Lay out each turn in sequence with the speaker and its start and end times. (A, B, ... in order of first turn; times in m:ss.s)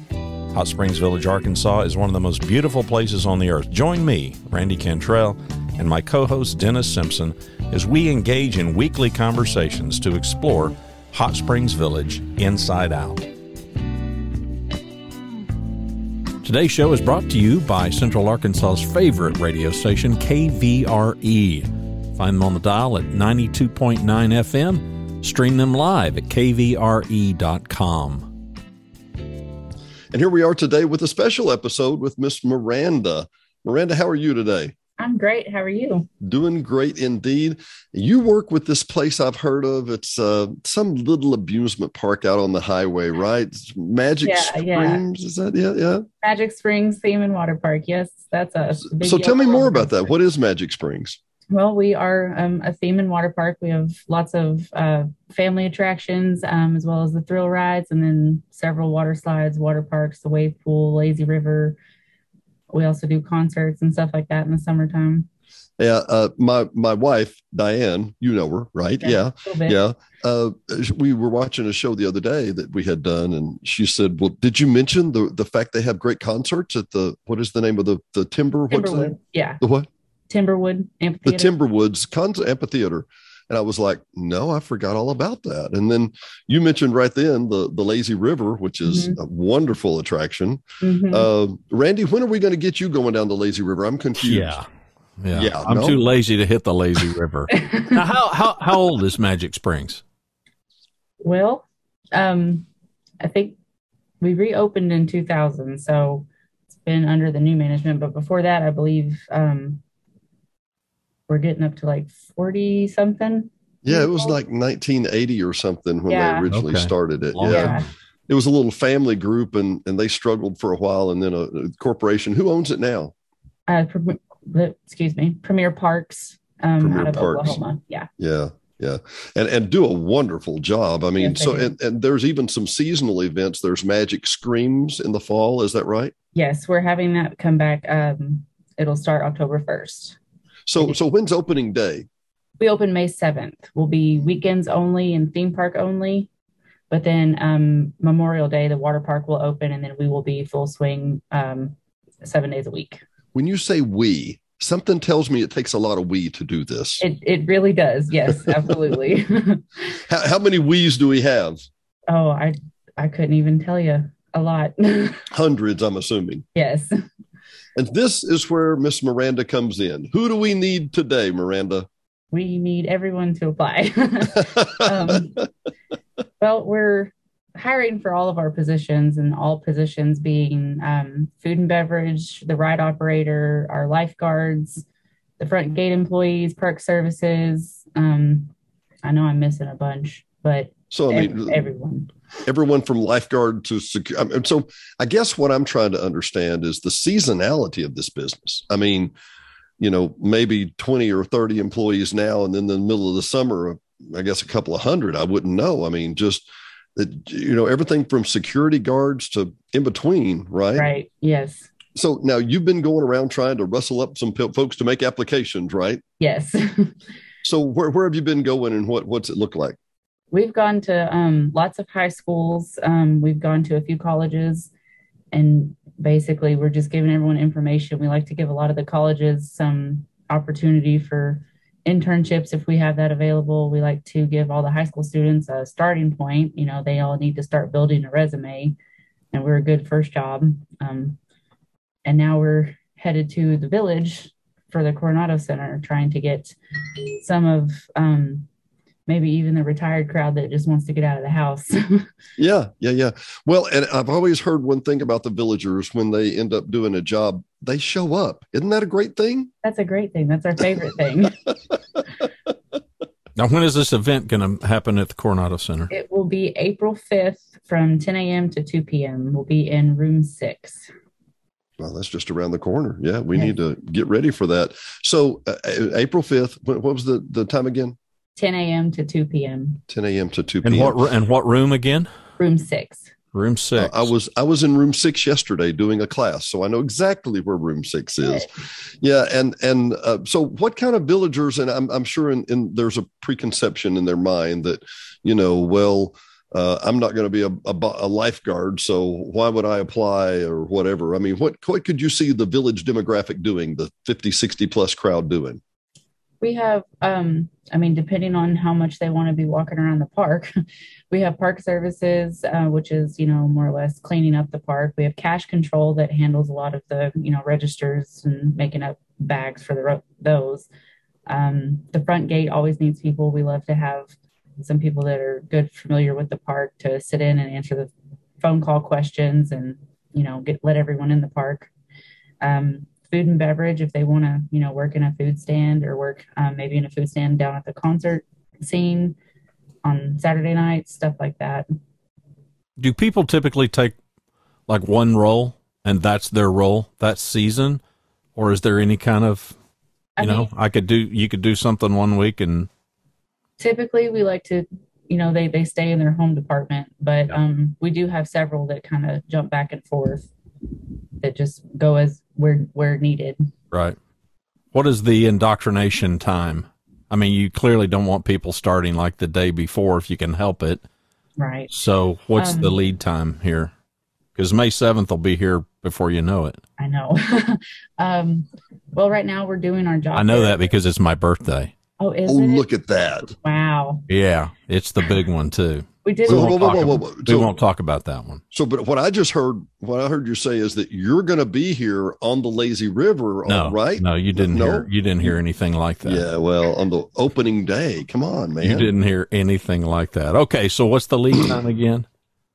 0:00.5-0:13.2 A
0:16.4-0:28.3 A
0:30.1-0:34.7 B
0:35.0-0:36.1 C
0:36.2-0:46.0 B
0:44.2-0:45.0 C
0:46.2-0:50.1 C
0:48.9-0:51.2 B
0:51.5-1:01.8 C
1:02.7-1:05.3 C
1:05.8-1:19.9 B
1:09.0-1:09.8 C
1:18.7-1:19.6 C
1:20.3-1:21.5 C
1:21.2-1:34.6 B
1:28.8-1:29.2 C
1:30.8-1:31.3 C
1:34.2-1:34.7 A
1:35.2-1:40.0 A
1:35.3-1:36.0 B
1:37.5-1:38.0 C
1:41.2-1:42.7 C
1:43.2-1:43.6 C
1:44.2-1:49.8 C
1:51.3-1:54.4 C
1:53.8-2:03.1 B
1:56.1-1:56.5 C
1:56.5-1:57.9 A
1:57.5-1:57.8 C
2:03.7-2:08.1 C
2:06.8-2:07.6 B
2:08.2-2:16.1 B
2:11.2-2:11.7 C
2:16.3-2:20.2 C
2:20.7-2:22.1 B
2:22.6-2:26.3 C
2:26.9-2:33.0 C
2:33.3-2:37.0 B
2:37.0-2:40.0 C
2:38.3-2:38.7 B
2:40.1-2:41.6 B
2:42.1-2:45.2 C
2:45.3-2:46.4 B
2:46.5-2:46.9 C
2:47.8-2:51.9 B
2:52.3-2:55.5 C
2:56.4-3:04.8 C
3:05.4-3:08.5 C
3:09.0-3:12.1 C
3:10.9-3:11.6 B
3:12.5-3:19.1 B
3:19.8-3:30.9 B
3:30.8-3:31.7 C
3:32.0-3:36.0 B
3:36.2-3:37.0 C
3:37.4-3:39.8 B
3:40.3-3:44.7 C
3:45.3-3:58.8 C
3:59.3-4:01.2 C
4:02.0-4:06.6 C
4:07.2-4:08.5 C
4:09.1-4:12.1 C
4:12.4-4:19.5 B
4:19.6-4:21.4 C
4:23.4-4:25.9 A
4:25.9-4:30.9 C
4:31.8-4:38.0 B
4:38.3-4:39.8 C
4:39.9-4:41.0 B
4:40.6-4:42.1 A
4:42.4-4:43.1 C
4:43.3-4:44.1 A
4:43.8-4:48.5 B
4:48.2-4:48.4 C
4:49.0-5:05.6 B
5:06.4-5:10.5 C
5:11.1-5:20.7 C
5:21.3-5:31.7 C
5:32.4-5:39.2 C
5:39.8-5:41.7 C
5:42.8-5:44.0 A
5:44.7-5:47.8 A
5:48.4-5:49.5 A
5:50.2-5:50.5 C
5:50.2-5:52.7 A
5:53.6-6:00.3 C
6:01.2-6:03.4 C
6:03.7-6:04.0 A
6:04.7-6:10.8 A
6:11.4-6:11.7 C
6:11.7-6:13.7 A
6:12.4-6:12.8 C
6:14.4-6:16.6 A
6:16.8-6:20.6 C
6:20.1-6:21.7 A
6:22.0-6:24.0 C
6:22.2-6:23.3 B
6:24.1-6:28.4 A
6:26.0-6:26.9 C
6:26.3-6:27.5 B
6:28.5-6:35.3 B
6:33.5-6:36.2 A
6:36.0-6:38.9 B
6:38.6-6:42.1 A